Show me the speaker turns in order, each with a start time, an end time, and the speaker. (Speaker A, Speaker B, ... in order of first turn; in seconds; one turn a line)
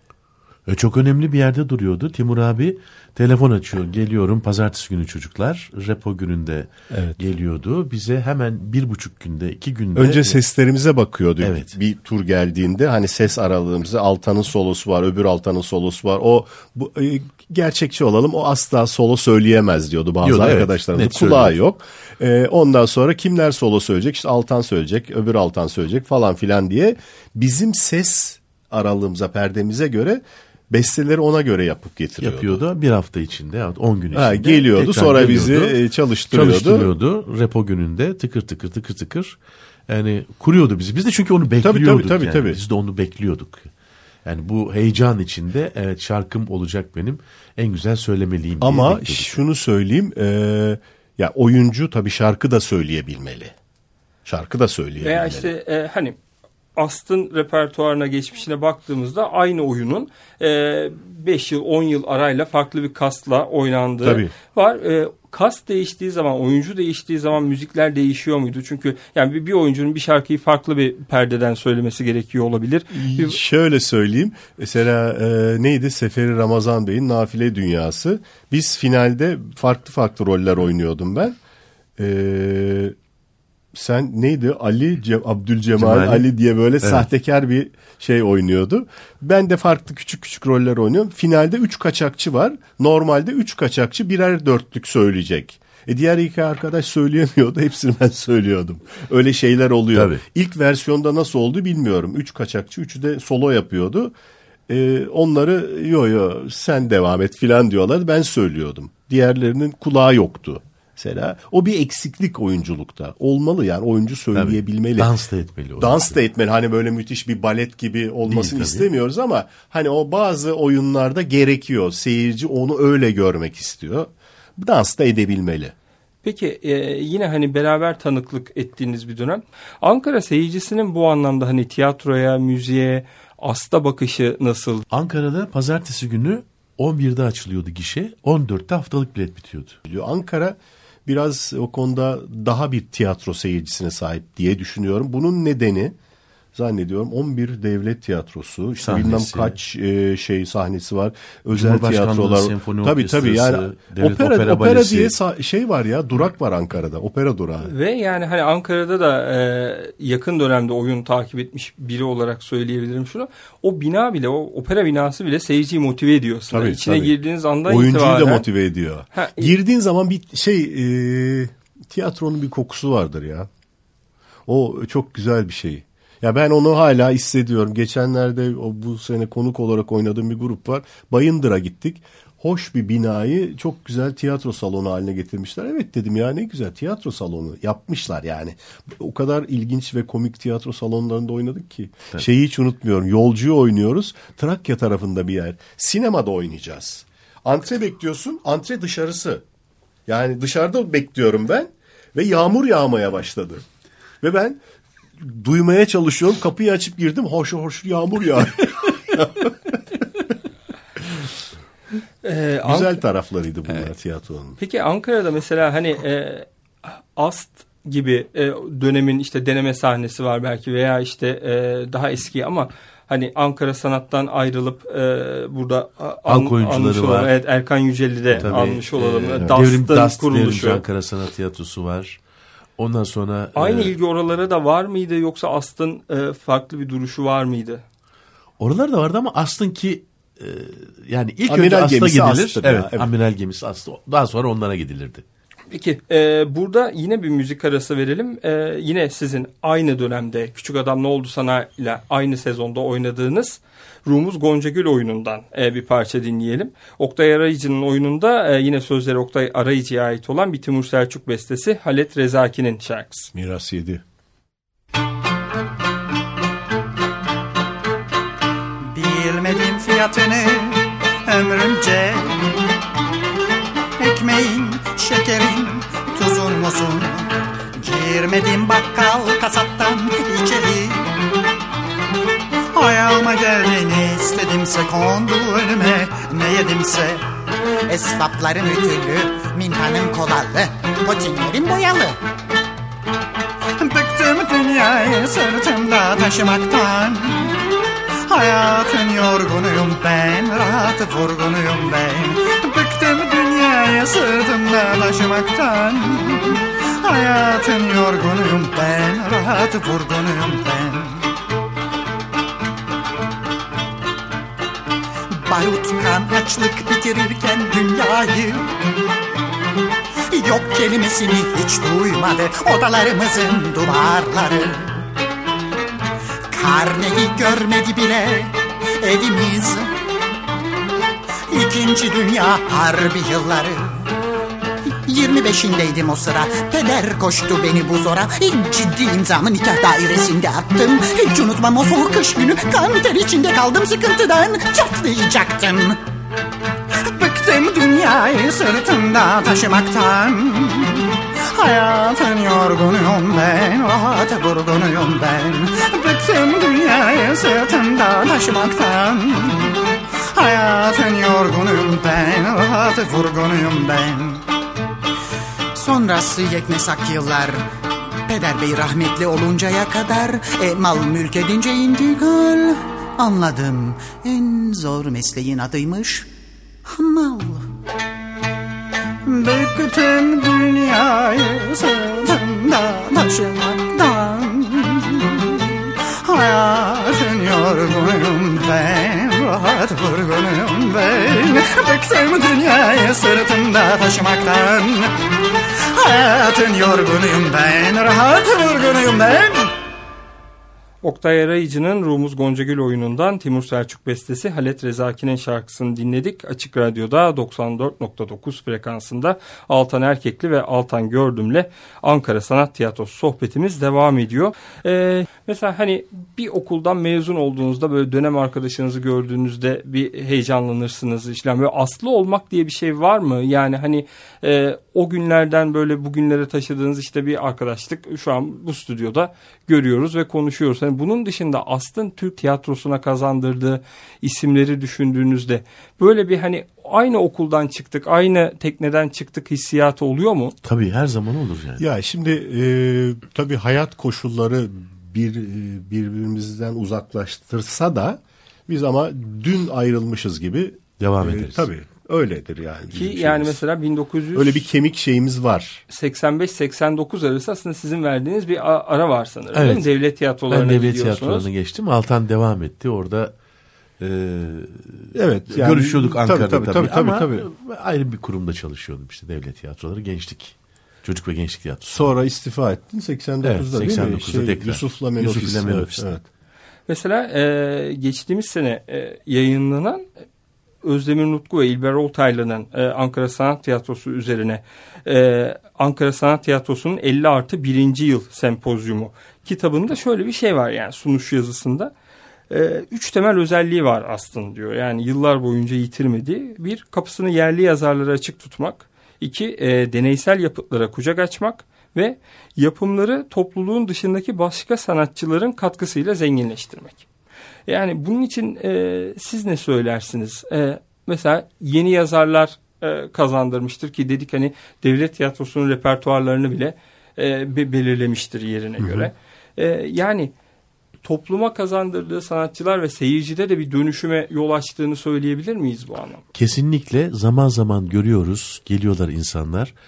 Speaker A: 0.7-10.4
Speaker B: 6.9-7.2
Speaker B: 9.9-32.6
Speaker A: 11.4-11.7
Speaker A: 20.2-21.6
Speaker A: 32.2-35.8
Speaker B: 34.1-36.9
Speaker A: 36.3-39.4
Speaker A: 39.9-43.7
Speaker B: 41.6-42.6
Speaker A: 44.2-49.4
Speaker B: 48.6-53.5
Speaker B: 54.2-55.5
Speaker C: 55.0-56.2
Speaker C: 56.8-73.4
Speaker B: 64.0-64.3
Speaker B: 72.9-81.4
Speaker B: 82.0-83.0
Speaker B: 83.7-104.1
Speaker A: 85.8-86.3
Speaker A: 86.8-87.1
Speaker A: 99.9-100.2
Speaker B: 104.7-115.1
Speaker A: 114.3-116.2
Speaker B: 115.8-125.7
Speaker A: 118.2-118.9
Speaker C: 126.2-134.8
Speaker A: 134.9-139.8
Speaker B: 139.9-146.0
Speaker B: 146.5-157.7
Speaker A: 148.8-149.6
Speaker A: 151.5-155.2
Speaker C: 157.6-168.5
Speaker B: 166.5-173.5
Speaker C: 169.1-169.5
Speaker B: 174.5-199.4
Speaker B: 200.1-203.6
Speaker B: 204.2-204.6
Speaker B: 205.2-210.0
Speaker C: 212.2-213.0
Speaker B: 212.6-214.6
Speaker C: 214.6-230.8
Speaker A: 226.3-227.3
Speaker A: 228.3-232.2
Speaker A: 232.8-233.9
Speaker C: 233.6-237.8
Speaker A: 238.6-245.2
Speaker B: 241.5-243.1
Speaker C: 245.7-263.3
Speaker B: 263.3-264.0
Speaker D: 268.8-272.4
Speaker D: 274.0-281.1
Speaker D: 282.7-287.3
Speaker D: 287.9-292.2
Speaker D: 293.8-297.6
Speaker D: 298.2-311.3
Speaker D: 315.3-318.7
Speaker D: 320.3-325.0
Speaker D: 326.5-329.9
Speaker D: 331.5-334.1
Speaker D: 335.1-346.0
Speaker D: 347.0-364.4
Speaker D: 365.7-367.7
Speaker D: 368.2-376.3
Speaker D: 376.8-377.7
Speaker D: 379.2-395.2
Speaker D: 395.9-399.7
Speaker C: 401.0-440.6
Speaker A: 440.6-441.8
Speaker B: 441.8-453.6
Speaker A: 451.0-451.7
Speaker C: 452.9-454.7
Speaker B: 454.3-455.8
Speaker C: 455.9-461.5
Speaker A: 459.5-459.9
Speaker A: 460.5-463.3
Speaker A: 464.0-472.1
Speaker B: 465.1-467.5
Speaker B: 471.9-476.2
Speaker A: 473.4-476.1
Speaker C: 476.9-480.1
Speaker C: 480.8-491.9
Speaker C: 492.5-507.1
Speaker C: 507.7-520.3
Speaker C: 521.0-526.2
Speaker A: 526.3-529.7